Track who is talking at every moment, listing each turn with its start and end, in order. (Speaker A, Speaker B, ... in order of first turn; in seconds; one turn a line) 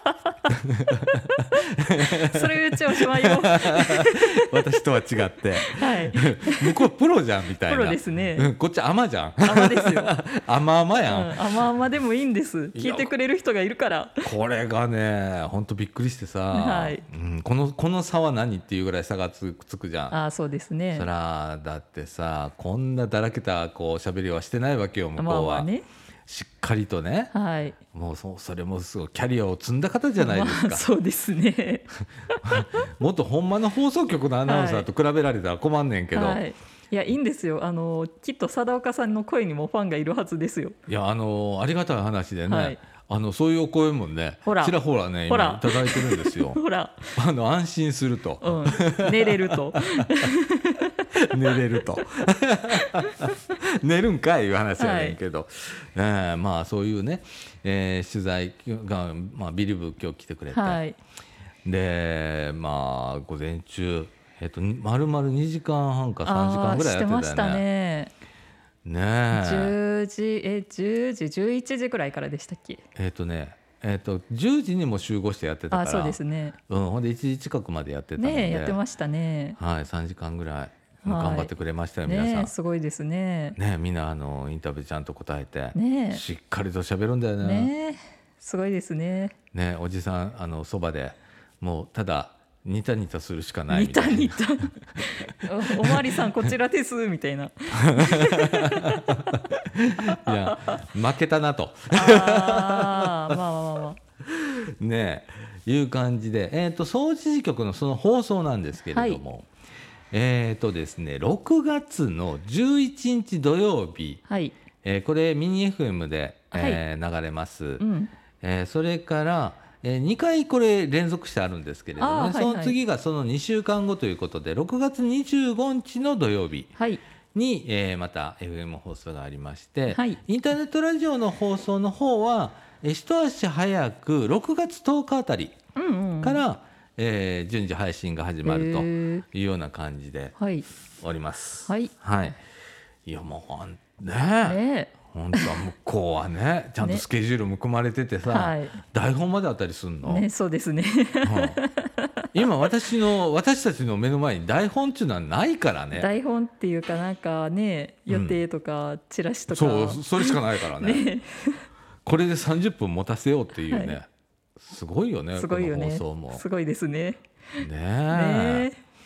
Speaker A: 0.5-11.6
Speaker B: 2.0-4.5
Speaker B: 5.6-6.9
Speaker B: 7.7-8.5
Speaker B: 9.4-10.2
Speaker B: 11.0-14.3
Speaker A: 12.7-13.1
Speaker A: 14.2-20.1
Speaker B: 16.5-17.0
Speaker B: 20.1-21.1
Speaker A: 20.9-25.7
Speaker B: 25.2-25.8
Speaker A: 26.3-27.3
Speaker B: 27.3-27.8
Speaker A: 27.9-30.9
Speaker B: 30.2-32.6
Speaker A: 32.4-36.4
Speaker B: 34.5-34.9
Speaker B: 36.1-40.8
Speaker A: 40.9-46.6
Speaker B: 42.5-42.8
Speaker B: 44.4-44.8
Speaker B: 45.3-47.1
Speaker A: 47.1-50.3
Speaker B: 48.4-51.1
Speaker A: 51.1-60.8
Speaker B: 52.7-53.1
Speaker B: 54.8-55.2
Speaker B: 60.5-61.0
Speaker A: 61.6-67.7
Speaker B: 66.2-68.1
Speaker A: 68.8-69.8
Speaker B: 69.3-72.8
Speaker A: 72.9-78.8
Speaker B: 75.7-76.6
Speaker B: 78.2-79.6
Speaker A: 79.6-82.5
Speaker B: 81.0-81.5
Speaker B: 82.0-83.6
Speaker A: 83.6-87.7
Speaker B: 85.7-86.2
Speaker B: 87.4-89.3
Speaker A: 89.5-94.5
Speaker B: 93.7-99.2
Speaker A: 95.3-96.5
Speaker A: 97.7-103.4
Speaker B: 100.1-100.8
Speaker B: 101.9-104.0
Speaker A: 104.2-109.5
Speaker B: 108.9-109.2
Speaker A: 110.1-114.2
Speaker B: 114.3-114.5
Speaker A: 114.8-117.8
Speaker B: 116.5-116.8
Speaker B: 117.8-118.1
Speaker A: 118.4-126.7
Speaker B: 122.0-122.8
Speaker B: 126.8-127.0
Speaker A: 127.3-135.6
Speaker B: 129.9-130.2
Speaker B: 135.8-136.4
Speaker A: 136.2-140.3
Speaker B: 138.4-139.2
Speaker B: 140.4-140.7
Speaker A: 141.0-142.4
Speaker B: 141.7-141.9
Speaker A: 143.0-150.3
Speaker B: 144.4-145.6
Speaker B: 148.3-148.8
Speaker B: 150.0-152.6
Speaker A: 151.2-151.6
Speaker A: 152.3-156.1
Speaker B: 155.9-161.7
Speaker A: 158.1-158.4
Speaker A: 159.5-161.1
Speaker A: 162.0-166.4
Speaker B: 163.7-164.0
Speaker B: 165.3-168.8
Speaker A: 167.6-168.7